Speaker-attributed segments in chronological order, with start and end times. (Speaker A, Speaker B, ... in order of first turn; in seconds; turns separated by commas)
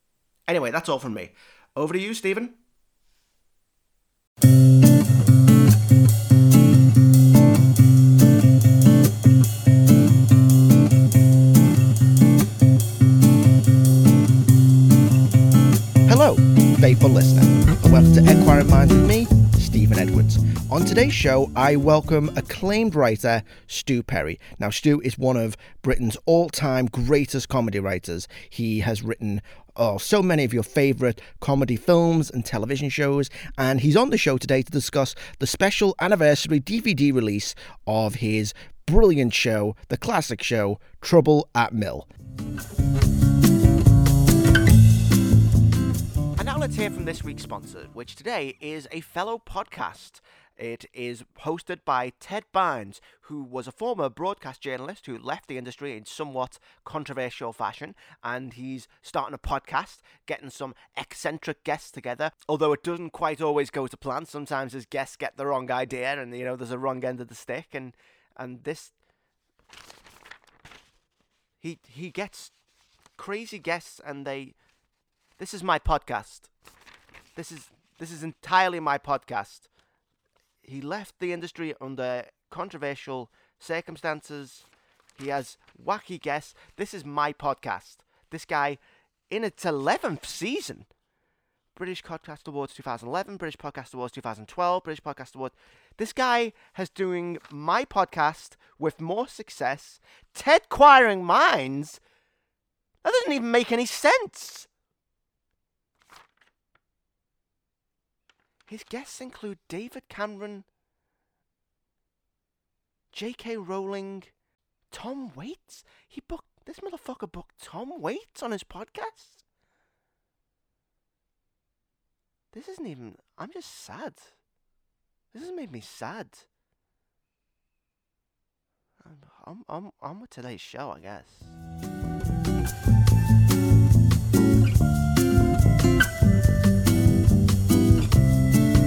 Speaker A: 0.5-2.6, Speaker A: 16.1-42.1, Speaker A: 46.4-69.0, Speaker A: 71.6-72.5, Speaker A: 73.2-74.6, Speaker A: 75.4-76.5, Speaker A: 77.4-79.7, Speaker A: 80.6-90.9, Speaker A: 91.8-102.0, Speaker A: 103.0-104.7, Speaker A: 108.7-110.7, Speaker A: 113.1-114.3, Speaker A: 114.9-119.4, Speaker A: 122.5-124.3, Speaker A: 125.3-126.5, Speaker A: 129.0-131.5